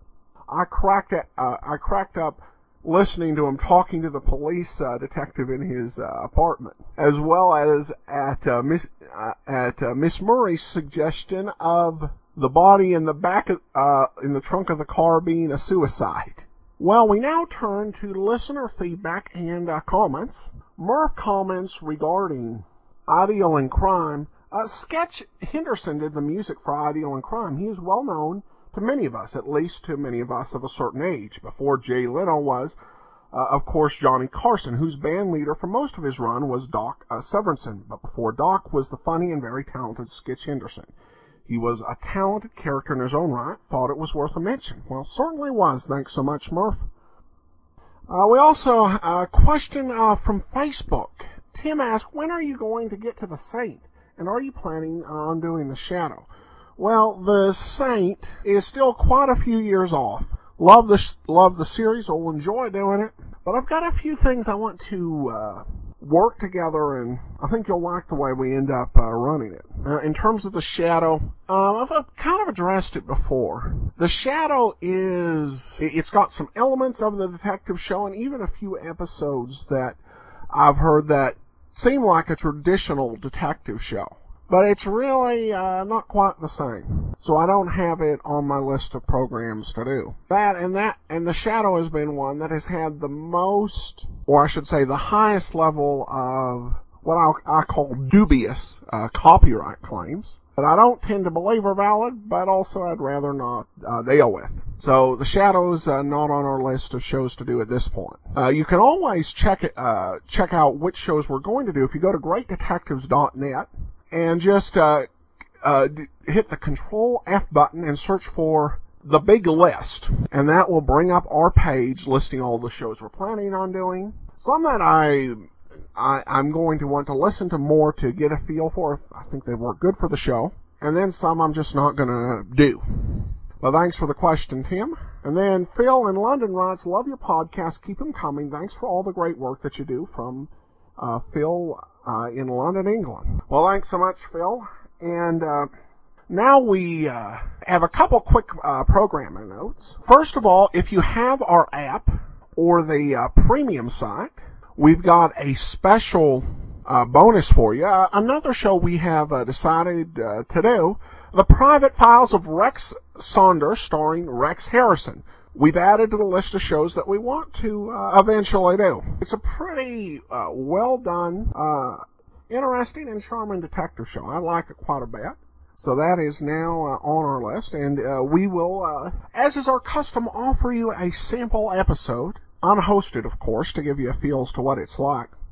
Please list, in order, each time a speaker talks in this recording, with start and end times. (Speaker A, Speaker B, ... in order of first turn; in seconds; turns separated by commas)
Speaker A: 0.5-32.8, Speaker A: 33.3-40.9, Speaker A: 41.5-46.9, Speaker A: 48.1-56.2, Speaker A: 56.8-80.0, Speaker A: 80.5-115.1, Speaker A: 115.6-145.7, Speaker A: 146.3-185.3